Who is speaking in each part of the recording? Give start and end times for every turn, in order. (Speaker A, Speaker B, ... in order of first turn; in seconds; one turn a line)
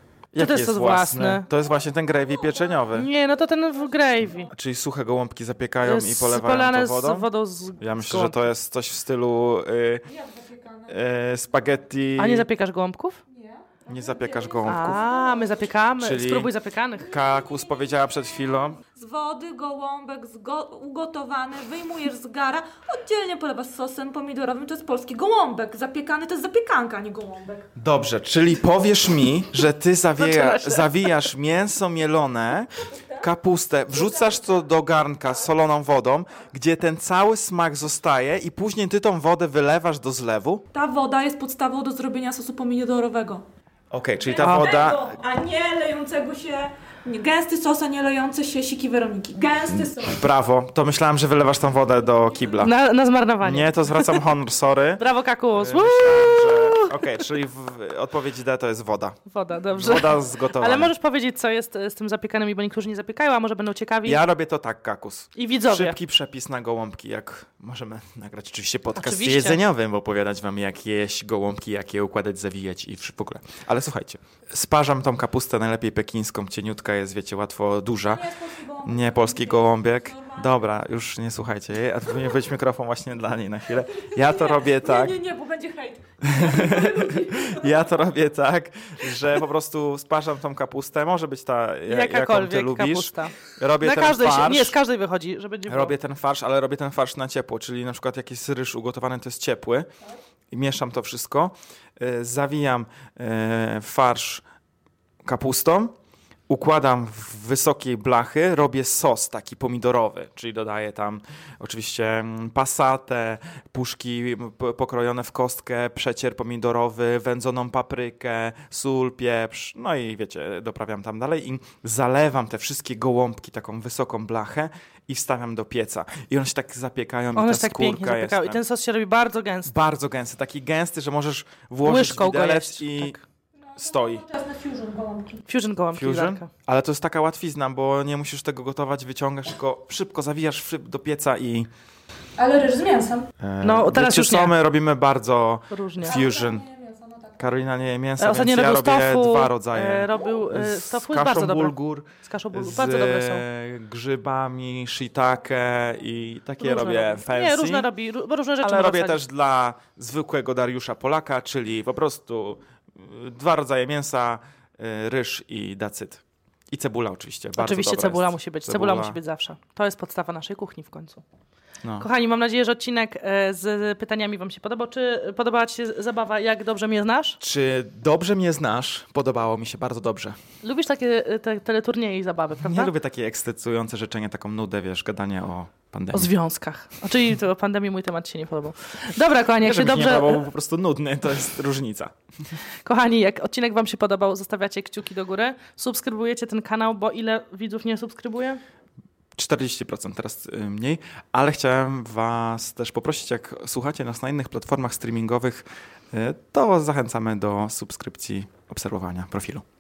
Speaker A: 0.3-3.1
Speaker B: 0.3-1.4
Speaker B: 2.9-4.5
Speaker A: 4.5-7.3
Speaker B: 5.8-8.5
Speaker A: 7.8-10.1
Speaker C: 10.1-10.9
Speaker A: 10.9-12.5
Speaker B: 12.2-13.2
Speaker C: 13.3-15.6
Speaker A: 13.9-15.0
Speaker B: 14.6-17.1
Speaker A: 16.0-18.8
Speaker C: 17.1-17.7
Speaker C: 18.9-27.7
Speaker A: 27.8-40.6
Speaker B: 30.2-31.3
Speaker C: 32.9-33.2
Speaker C: 34.0-34.4
Speaker C: 40.7-43.4
Speaker A: 43.9-45.1
Speaker C: 44.2-50.2
Speaker B: 44.4-44.7
Speaker A: 49.7-52.7
Speaker C: 52.3-52.7
Speaker B: 52.6-54.2
Speaker A: 53.4-59.2
Speaker B: 55.0-57.2
Speaker B: 59.3-64.2
Speaker A: 59.7-60.9
Speaker A: 64.0-85.2
Speaker B: 65.3-66.0
Speaker B: 68.9-69.6
Speaker C: 78.1-80.5
Speaker C: 83.9-87.7
Speaker A: 86.2-94.8
Speaker B: 91.9-95.9
Speaker A: 95.7-99.9
Speaker A: 100.5-104.4
Speaker A: 105.2-105.9
Speaker A: 106.5-128.6
Speaker B: 127.3-129.7
Speaker A: 129.7-133.2
Speaker B: 131.8-133.2
Speaker C: 133.7-135.4
Speaker A: 133.8-134.2
Speaker B: 135.5-136.5
Speaker A: 135.9-141.7
Speaker C: 142.4-143.3
Speaker A: 143.4-146.6
Speaker B: 143.6-144.5
Speaker B: 145.7-146.2
Speaker C: 146.1-147.4
Speaker A: 147.4-157.9
Speaker B: 148.2-153.4
Speaker B: 156.6-159.2
Speaker A: 158.6-169.2
Speaker B: 167.6-171.2
Speaker B: 172.0-177.4
Speaker A: 177.4-180.4
Speaker B: 180.6-182.9
Speaker A: 182.6-186.3
Speaker B: 186.1-190.4
Speaker A: 189.6-192.1
Speaker B: 192.8-198.6
Speaker A: 199.3-209.6